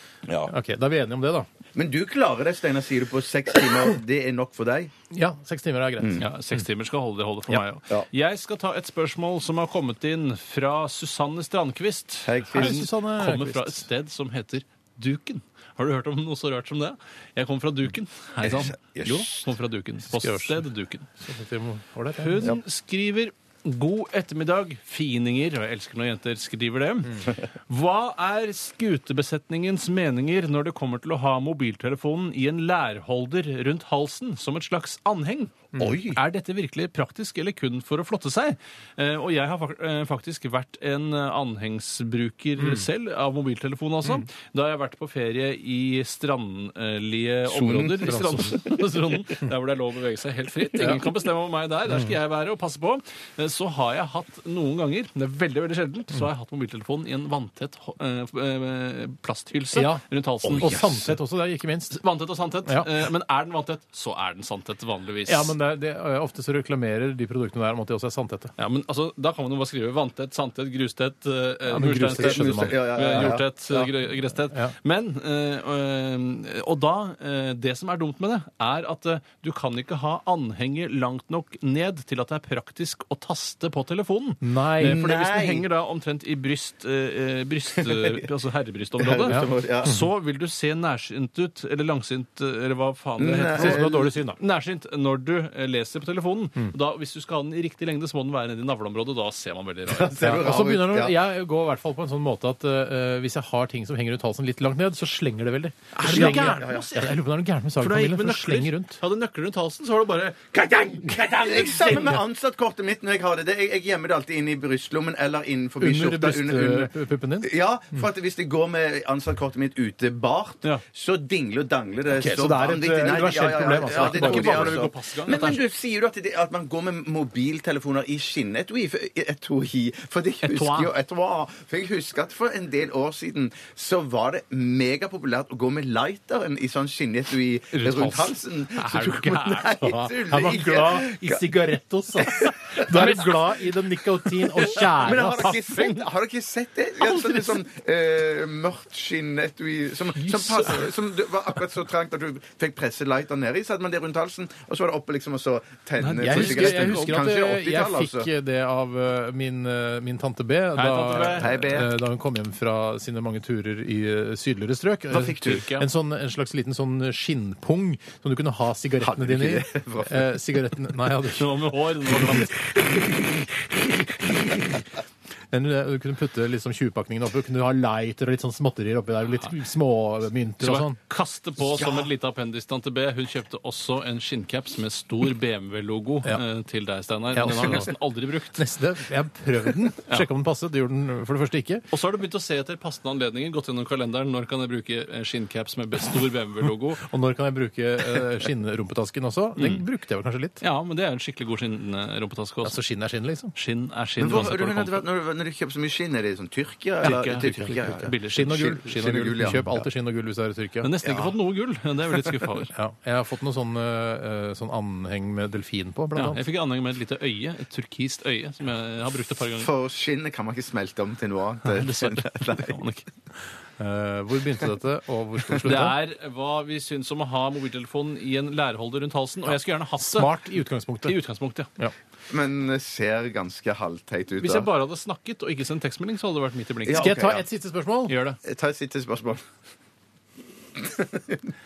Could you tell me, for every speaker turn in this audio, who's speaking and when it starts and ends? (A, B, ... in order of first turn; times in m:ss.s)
0:00.2-0:00.5 A
0:00.5-0:01.5 B
0:01.7-0:04.9 A
0:05.1-0:06.6 B
0:06.0-0:06.2 A
0:06.2-0:21.1 C
0:12.2-0:12.8 A
0:12.5-0:13.8 B
0:18.4-0:19.5 A
0:20.1-0:20.6 B
0:21.2-0:22.5 B
0:22.2-1:01.0 C
0:35.8-0:36.2 A
0:42.6-0:42.8 B
0:47.5-0:48.8 A
0:48.1-0:48.6 B
0:59.7-1:02.0 B
1:00.4-1:01.0 A
1:01.9-1:05.5 C
1:05.3-1:08.5 B
1:08.6-1:40.4 C
1:11.7-1:13.4 B
1:12.1-1:13.9 A
1:24.4-1:25.0 B
1:24.8-1:25.6 A
1:27.8-1:28.2 A
1:29.0-1:30.0 A
1:29.3-1:30.0 B
1:33.2-1:34.1 A
1:33.5-1:34.4 B
1:39.9-1:41.2 A
1:40.2-1:49.0 B
1:45.9-1:47.2 C
1:46.0-1:47.0 A
1:47.8-1:52.2 C
1:51.3-2:21.4 A
1:55.8-1:57.5 B
2:02.1-2:04.9 B
2:03.7-2:05.6 C
2:10.4-2:10.9 C
2:17.7-2:19.7 C
2:19.8-2:25.6 B
2:22.2-2:23.2 A
2:22.8-2:23.3 C
2:24.4-2:26.1 C
2:24.7-2:38.3 A
2:27.0-2:27.6 C
2:30.4-2:30.7 C
2:36.0-2:37.2 C
2:36.2-2:51.5 B
2:40.8-2:41.5 C
2:41.4-2:41.9 A
2:45.1-2:45.8 C
2:45.2-2:45.6 A
2:49.0-2:50.2 A
2:51.3-2:52.8 C
2:55.5-3:01.0 B
3:00.6-3:08.7 C
3:01.8-3:02.1 A
3:07.3-3:07.9 B
3:08.6-3:11.8 B
3:11.9-3:17.0 C
3:17.0-3:20.6 B
3:19.6-3:19.8 C
3:20.6-3:22.8 C
3:22.6-3:23.5 B
3:23.5-3:25.0 C
3:24.2-3:29.8 A
3:27.0-3:29.6 C
3:27.0-3:30.9 B
3:30.8-3:32.7 C
3:31.0-3:31.4 A
3:32.7-3:36.4 B
3:36.2-3:39.7 C
3:39.6-3:42.8 A
3:41.7-3:43.0 C
3:43.8-3:46.0 B
3:45.6-3:50.3 C
3:50.0-3:51.2 B
3:51.0-3:51.7 C
3:52.3-3:54.7 A
3:54.4-3:57.3 C
3:56.8-3:57.4 A
3:57.0-3:58.1 B
3:58.1-3:58.4 C
3:58.4-3:59.4 A
4:00.8-4:01.5 A